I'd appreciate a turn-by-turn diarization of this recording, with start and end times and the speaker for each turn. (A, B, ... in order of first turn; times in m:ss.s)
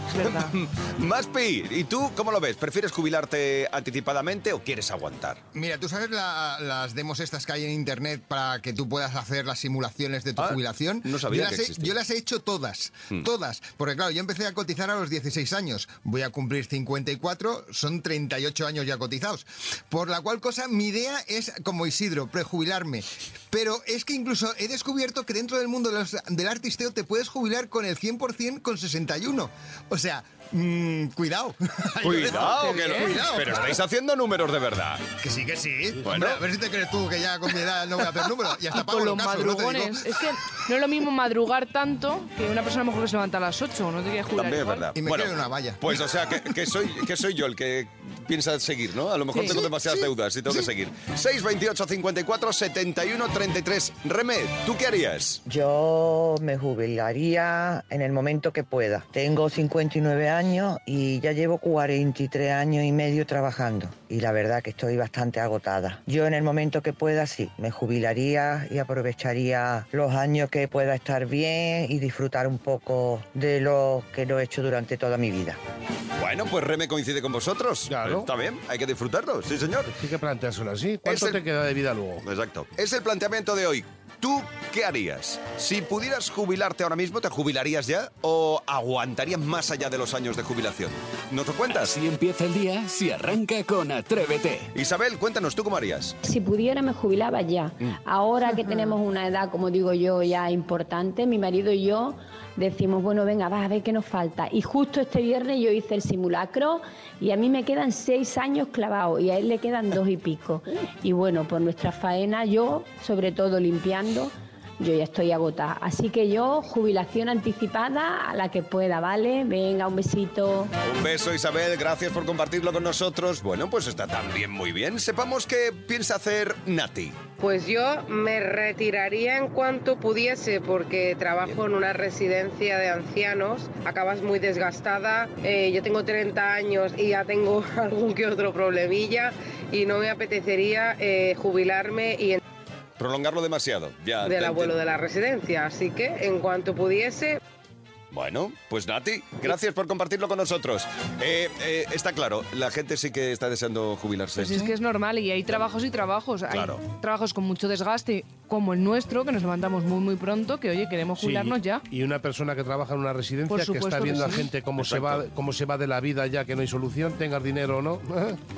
0:00.1-0:00.5 A
0:00.2-0:05.4 B
0:05.5-0:33.8 C
0:10.4-0:11.9 B
0:32.0-0:35.1 B
0:32.5-0:33.1 A
0:35.2-0:40.1 C
0:36.1-0:36.4 B
0:38.7-0:44.8 A
0:44.4-0:55.4 B
0:45.0-0:46.6 C
0:49.4-0:50.7 C
0:55.5-1:15.6 D
1:16.2-1:19.9 B
1:17.9-1:18.3 E
1:19.9-1:22.2 E
1:21.0-1:21.4 B
1:22.2-1:32.0 B
1:31.7-1:34.7 F
1:34.7-1:36.2 B
1:36.2-2:00.7 G
2:00.8-2:07.2 B
2:07.4-2:22.4 H
2:23.0-2:24.8 B
2:24.2-2:27.4 H
2:28.1-2:34.7 B
2:34.4-2:41.8 A
2:36.5-2:36.8 B
2:41.2-2:48.4 E
2:43.5-2:44.5 A
2:44.8-2:45.2 B